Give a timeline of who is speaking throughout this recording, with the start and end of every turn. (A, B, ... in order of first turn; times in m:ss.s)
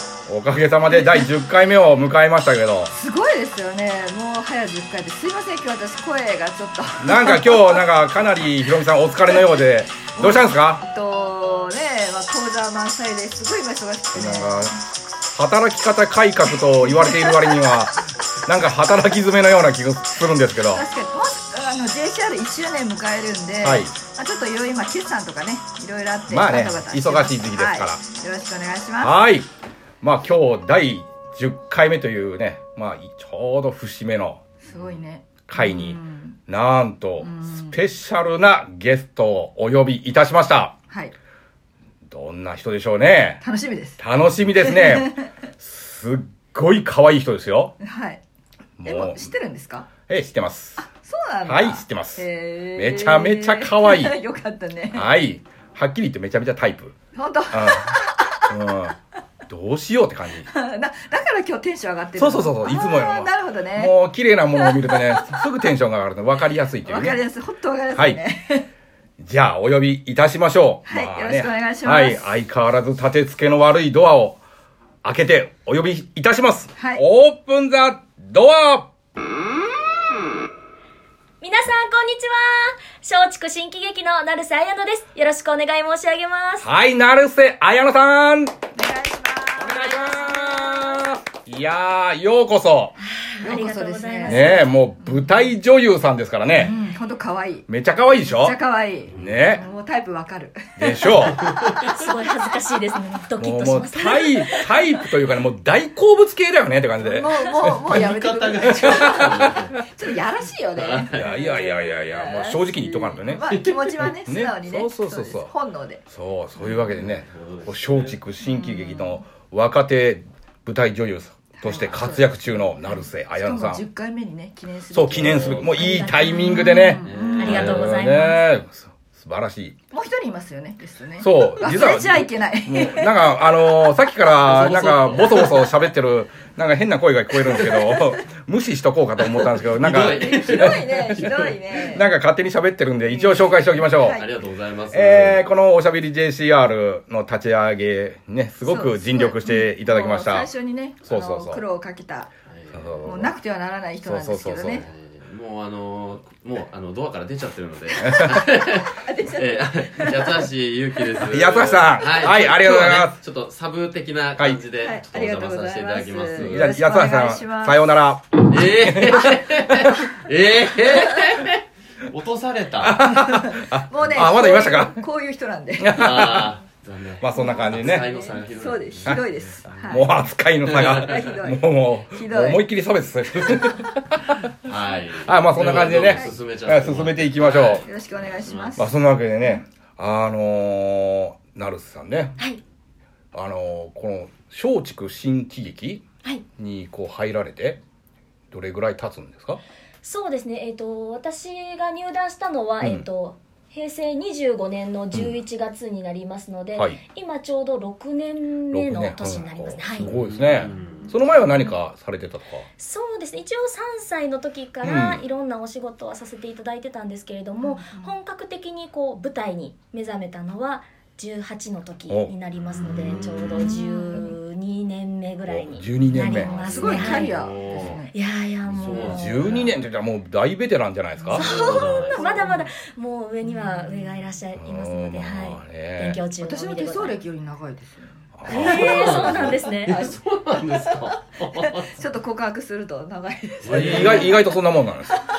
0:00.3-0:02.9 A
0:02.9-0:07.8 B
0:07.0-0:10.8 A
0:10.1-0:14.8 B
0:14.1-0:20.8 A
0:16.8-0:17.7 B
0:20.7-0:29.2 B
0:23.6-0:24.0 A
0:26.3-0:28.0 A
0:29.0-0:29.5 A
0:30.0-0:34.4 A
0:34.6-0:36.4 B
0:35.4-0:40.7 A
0:37.2-0:37.8 B
0:40.9-0:41.1 B
0:42.1-0:43.4 A
0:43.4-0:44.0 B
0:44.0-0:47.8 A
0:44.6-0:45.2 B
0:47.8-0:48.2 B
0:48.8-0:49.3 A
0:48.8-0:49.9 B
0:50.1-0:50.8 A
0:50.8-0:55.1 B
0:51.4-0:54.2 A
0:54.9-0:57.0 A
0:57.1-0:58.5 B
0:57.5-0:59.0 A
0:59.5-1:00.5 A
1:00.5-1:03.9 B
1:02.2-1:07.2 A
1:04.6-1:05.4 B
1:06.8-1:08.7 B
1:09.2-1:14.4 A
1:10.8-1:12.3 B
1:15.0-1:18.9 A
1:16.8-1:17.0 B
1:21.4-1:26.7 C
1:26.6-1:28.5 A
1:28.8-1:29.8 B
1:29.6-1:33.0 A
1:29.7-1:31.0 C
1:33.0-1:34.7 C
1:33.4-1:34.5 B
1:34.2-1:36.8 A
1:36.6-1:37.7 B
1:37.7-1:38.6 A
1:38.2-1:41.4 B
1:39.1-1:39.6 A
1:39.2-1:39.4 D
1:40.8-1:41.5 A
1:41.3-1:41.8 D
1:41.8-1:44.7 C
1:43.4-1:47.9 A
1:47.0-1:56.0 B
1:47.7-1:49.8 D
1:48.7-1:49.4 A
1:50.7-1:51.3 D
1:51.1-1:53.4 A
1:53.4-1:54.1 D
1:54.0-1:55.5 A
1:56.1-2:03.8 A
1:56.6-1:58.2 D
1:58.4-1:59.2 B
2:01.6-2:02.3 B
2:01.7-2:02.0 D
2:03.3-2:07.8 B
2:04.9-2:09.7 A
2:07.0-2:07.9 D
2:07.4-2:08.4 C
2:09.9-2:13.8 B
2:11.2-2:21.2 A
2:14.4-2:15.8 D
2:17.4-2:17.9 D
2:19.2-2:21.6 D
2:20.0-2:22.1 B
2:21.8-2:24.2 A
2:23.1-2:24.3 B
2:24.0-2:25.4 D
2:24.9-2:30.5 A
2:28.6-2:32.3 B
2:31.0-2:31.6 A
2:32.5-2:33.2 D
2:32.7-2:33.3 A
2:33.0-2:34.9 B
2:34.0-2:34.8 A
2:34.8-2:46.7 D
2:38.0-2:38.3 A
2:38.9-2:40.5 B
2:41.2-2:43.2 A
2:44.4-2:44.6 A
2:44.8-2:47.9 B
2:46.4-2:50.0 A
2:48.4-2:53.1 D
2:52.8-2:55.0 A
2:53.1-2:56.0 B
2:55.8-2:56.5 A
2:55.9-2:59.9 D
2:57.2-2:58.1 A
2:57.4-3:00.1 B
2:59.8-3:04.4 A
3:00.6-3:01.3 D
3:01.0-3:02.6 B
3:04.6-3:08.9 D
3:05.2-3:07.8 A
3:05.6-3:06.4 B
3:07.8-3:08.9 B
3:08.8-3:12.4 A
3:13.3-3:16.0 A
3:16.6-3:17.8 A
3:18.5-3:19.6 A
3:20.0-3:30.2 C
3:22.8-3:23.0 A
3:26.8-3:27.0 A
3:28.7-3:32.7 A
3:30.0-3:31.3 D
3:32.8-3:47.3 C
3:34.8-3:35.2 A
3:37.6-3:38.1 B
3:42.1-3:42.3 A
3:42.7-3:43.8 D
3:43.5-3:44.4 B
3:45.4-3:47.3 A
3:46.3-3:48.0 D
3:46.5-3:48.2 B
3:48.1-3:49.5 C
3:48.6-3:49.8 D
3:49.0-3:51.5 A
3:51.2-3:52.7 B
3:51.3-3:57.2 C
3:51.3-3:52.4 D
3:53.4-3:54.3 B
3:54.6-3:56.2 A
3:56.4-4:00.1 B
3:58.4-3:59.2 A
3:58.4-4:00.0 C
3:58.5-4:02.0 D
4:01.7-4:04.5 B
4:03.6-4:04.4 D
4:03.7-4:05.2 A